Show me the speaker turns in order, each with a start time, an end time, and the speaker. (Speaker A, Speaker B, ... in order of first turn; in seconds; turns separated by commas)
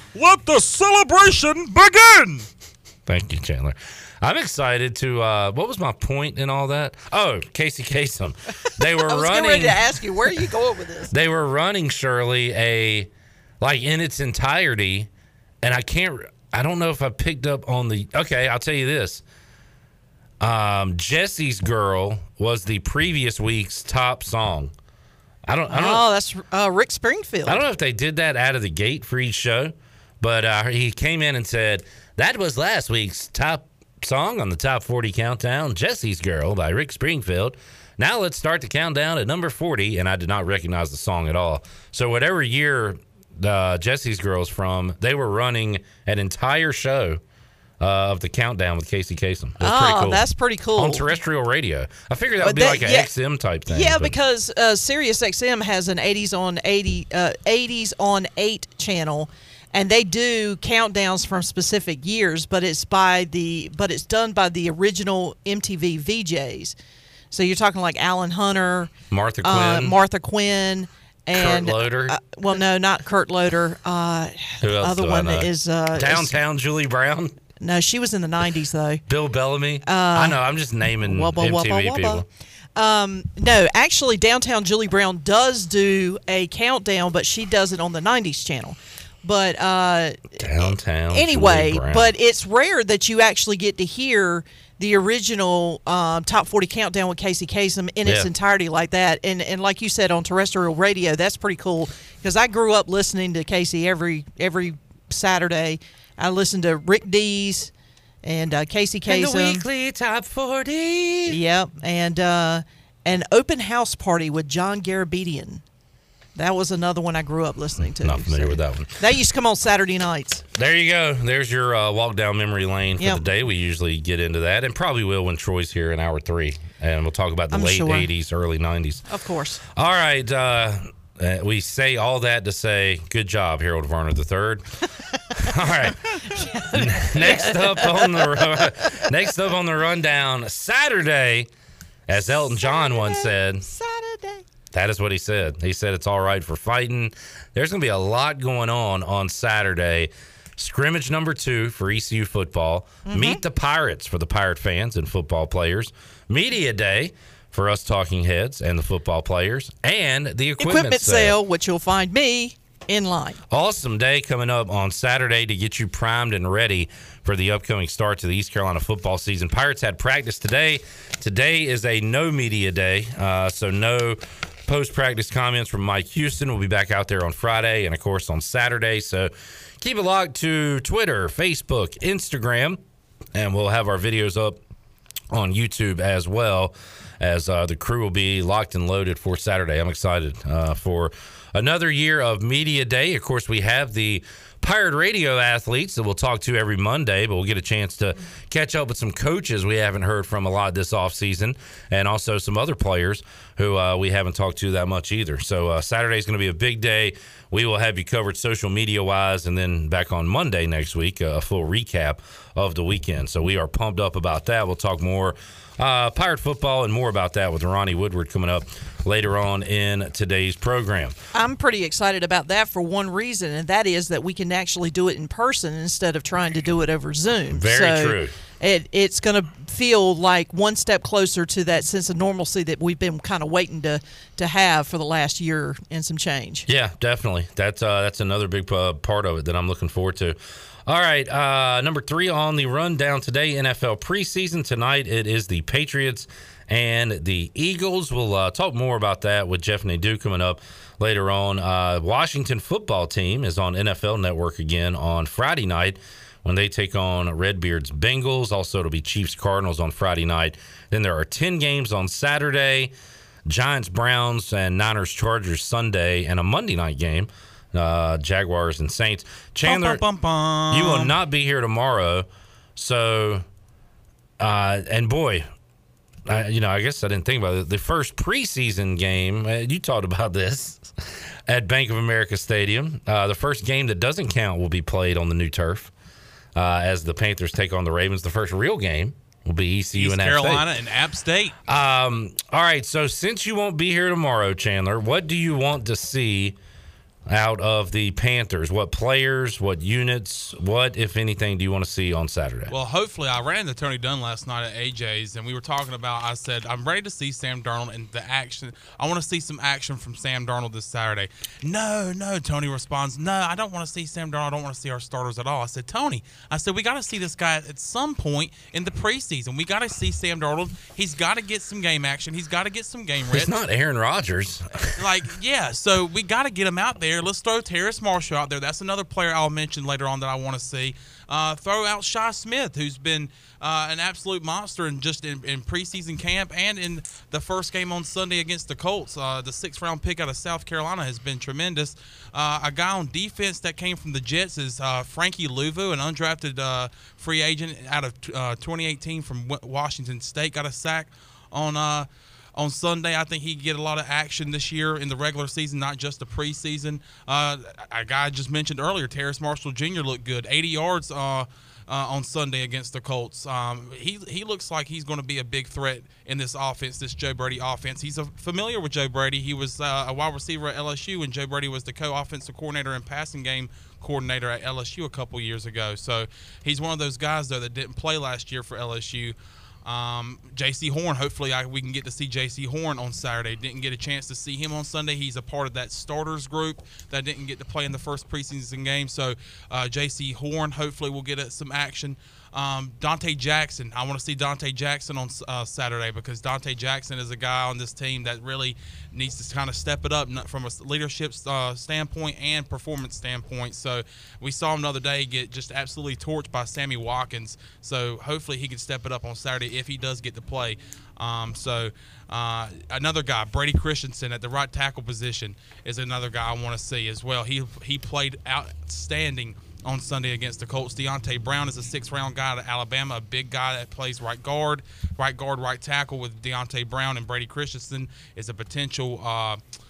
Speaker A: 0.1-2.5, Speaker B: 3.1-10.3, Speaker C: 8.8-11.1, Speaker B: 11.1-13.1, Speaker B: 13.6-15.1, Speaker B: 15.6-19.2, Speaker B: 20.4-24.7, Speaker B: 25.5-26.1, Speaker C: 25.7-27.6, Speaker B: 27.5-47.2, Speaker B: 47.8-54.1, Speaker C: 49.6-51.1, Speaker C: 52.4-53.1, Speaker C: 53.7-66.8, Speaker C: 67.3-76.4, Speaker B: 69.1-70.0, Speaker B: 71.3-72.2, Speaker B: 74.6-77.3, Speaker C: 77.6-79.0, Speaker B: 79.1-82.3, Speaker C: 79.8-80.4, Speaker C: 81.0-107.7, Speaker B: 90.4-92.1, Speaker B: 98.0-98.3, Speaker C: 108.2-109.7, Speaker B: 109.1-111.4, Speaker C: 111.3-115.6, Speaker C: 116.3-120.4, Speaker B: 117.8-119.0, Speaker B: 120.6-129.0, Speaker C: 123.0-123.2, Speaker C: 127.5-128.1, Speaker C: 129.1-129.6, Speaker B: 129.8-141.5, Speaker C: 136.1-139.0, Speaker B: 142.1-143.7, Speaker C: 142.1-144.4, Speaker B: 144.7-161.4, Speaker C: 153.1-153.4, Speaker C: 160.6-163.4, Speaker B: 163.5-182.8, Speaker B: 183.3-184.6, Speaker B: 185.3-221.2, Speaker C: 221.3-236.7, Speaker B: 227.6-228.3, Speaker B: 236.7-262.9, Speaker B: 263.5-270.1, Speaker A: 269.6-271.2, Speaker B: 270.7-273.4, Speaker B: 274.4-275.5, Speaker B: 276.3-285.9, Speaker B: 286.6-290.7, Speaker A: 290.0-291.6, Speaker B: 291.7-296.6, Speaker B: 297.3-302.7, Speaker A: 302.7-323.6, Speaker B: 323.3-324.9, Speaker A: 325.0-429.6